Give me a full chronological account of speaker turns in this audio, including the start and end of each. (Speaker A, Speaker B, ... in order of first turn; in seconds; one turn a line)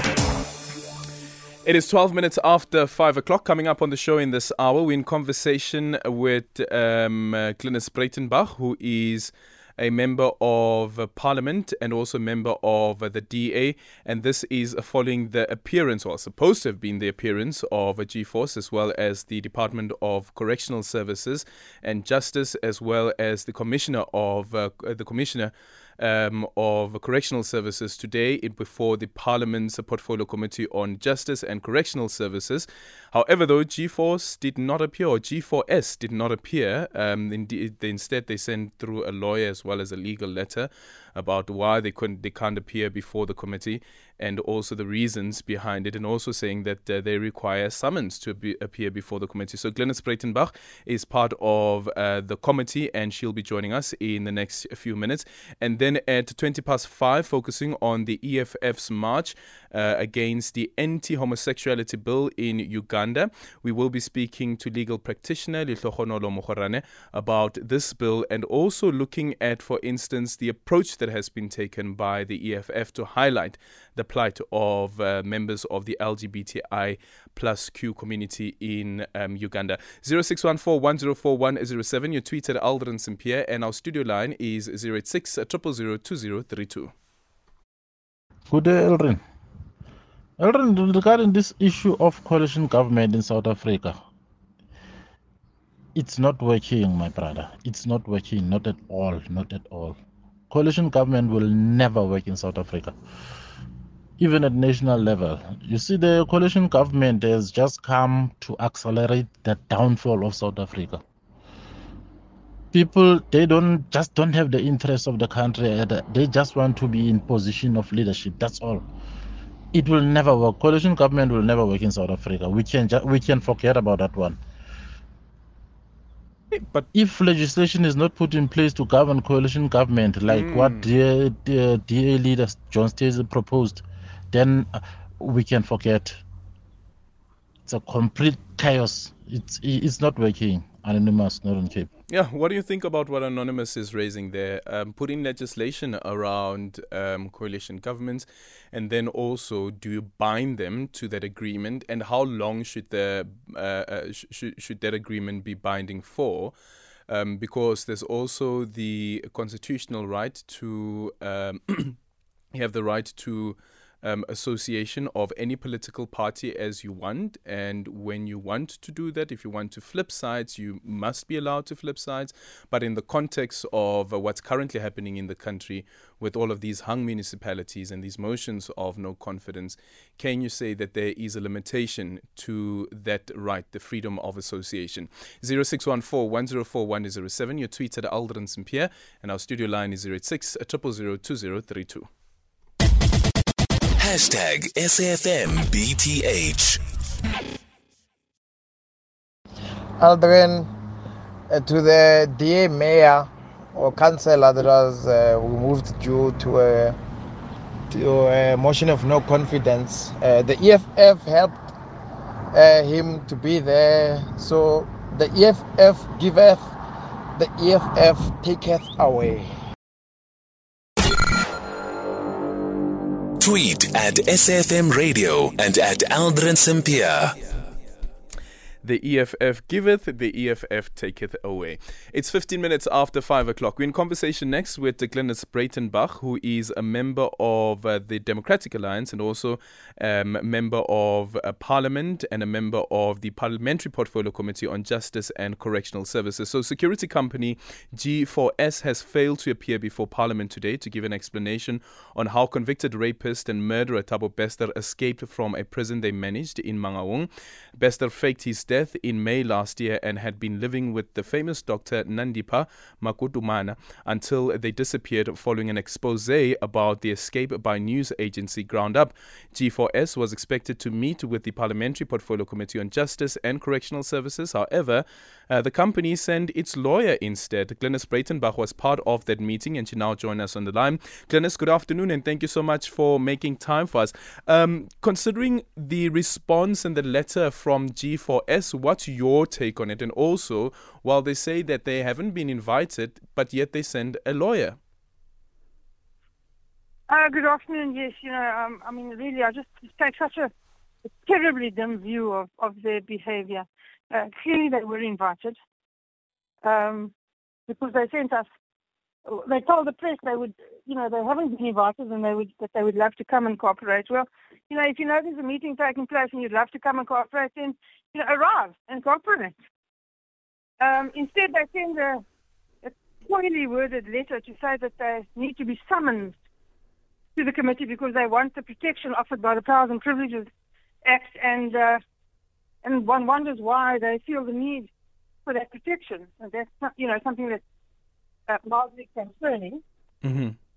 Speaker A: 1.6-86.9
Speaker B: 88.5-89.2
Speaker B: 90.4-94.0
Speaker B: 96.0-100.0
Speaker B: 100.5-102.9
Speaker B: 104.2-111.0
Speaker B: 112.7-118.8
Speaker B: 119.7-124.4
Speaker A: 126.5-126.9
Speaker B: 126.9-136.2
Speaker A: 130.3-130.9
Speaker B: 137.7-141.9
Speaker A: 142.1-156.5
Speaker A: 157.1-162.0
Speaker A: 162.5-192.1
Speaker C: 194.0-196.8
Speaker D: 200.0-200.7
Speaker D: 201.5-207.0
Speaker D: 207.9-211.7
Speaker D: 212.5-216.7
Speaker D: 217.3-219.5
Speaker C: 223.4-227.3
Speaker A: 228.8-294.8
Speaker E: 297.1-300.5
Speaker E: 301.1-305.6
Speaker E: 306.6-307.1
Speaker E: 307.7-308.5
Speaker E: 309.2-319.5
Speaker E: 320.8-322.2
Speaker E: 322.8-326.4
Speaker E: 327.4-330.5
Speaker E: 331.0-332.0
Speaker E: 332.8-334.9
Speaker E: 335.4-337.6
Speaker E: 338.5-339.8
Speaker A: 340.2-340.6